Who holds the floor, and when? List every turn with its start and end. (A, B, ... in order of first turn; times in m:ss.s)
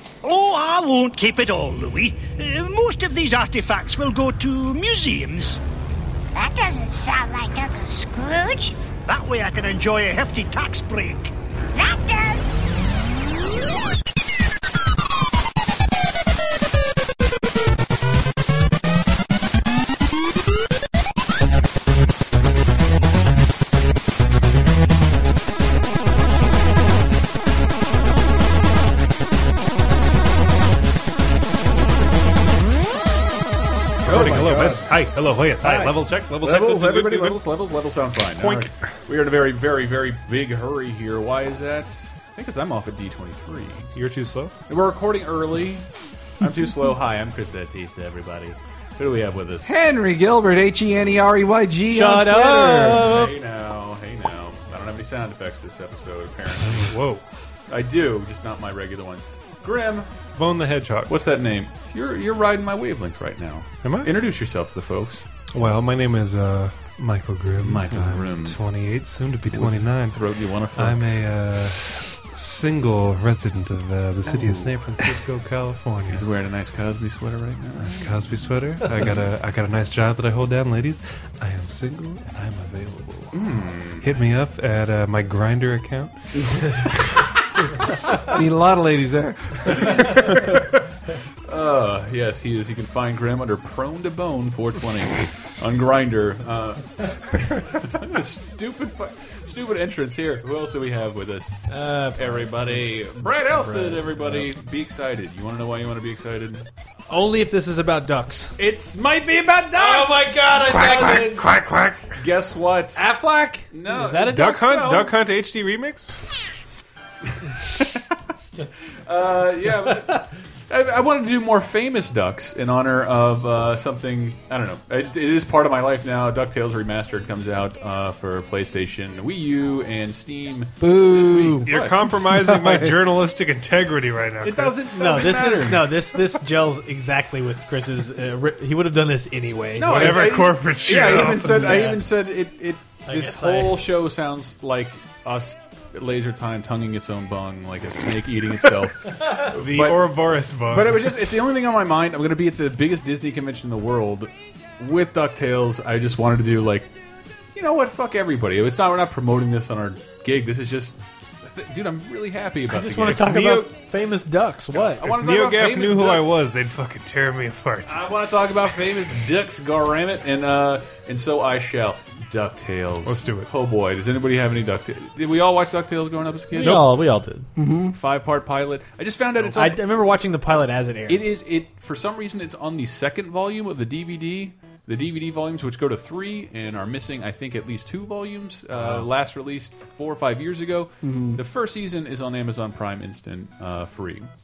0:00.2-0:05.6 A
0:06.3-0:08.8 B
0:09.0-0:11.3 A
0:11.7-0:12.5 B
0:34.0-0:34.9 C
0:34.0-0:37.4 D
0:35.6-0:43.9 C
0:38.4-0:38.7 D
0:43.9-0:44.5 D
0:44.7-0:45.8 C
0:46.4-0:49.8 C
0:49.6-0:53.1 E
0:51.9-0:53.3 F
0:52.8-0:57.0 C
0:56.7-0:57.2 D
0:57.7-1:00.1 C
1:00.3-1:01.1 D
1:01.1-1:05.3 C
1:03.8-1:04.1 D
1:05.5-1:10.2 D
1:07.6-1:08.6 C
1:09.5-1:11.0 C
1:10.8-1:16.3 D
1:14.2-1:15.1 C
1:16.1-1:18.2 C
1:17.8-1:23.4 D
1:23.3-1:24.1 C
1:24.0-1:26.8 D
1:28.3-1:29.7 E
1:29.7-1:30.1 C
1:31.4-1:41.6 C
1:41.7-1:44.4 F
1:42.2-1:46.6 C
1:47.1-1:48.6 F
1:48.6-1:50.5 C
1:49.8-1:51.5 F
1:50.4-1:52.2 D
1:52.2-1:53.0 C
1:53.0-1:54.6 F
1:53.7-1:55.2 C
1:54.1-1:56.2 D
1:59.0-2:12.0 C
2:10.8-2:12.9 E
2:11.6-2:14.8 D
2:14.4-2:15.9 C
2:15.0-2:20.2 F
2:19.8-2:36.9 C
2:19.9-2:21.9 D
2:21.6-2:22.0 F
2:23.1-2:23.9 F
2:29.4-2:31.3 D
2:37.5-2:43.3 C
2:42.7-2:45.1 F
2:43.2-2:43.7 D
2:44.7-2:46.5 C
2:45.0-2:48.0 D
2:47.8-2:56.8 C
2:53.0-2:53.5 D
2:56.5-2:57.5 F
2:57.6-2:57.9 E
2:57.9-2:59.8 C
2:59.4-3:01.2 F
3:01.1-3:14.3 C
3:11.0-3:11.4 E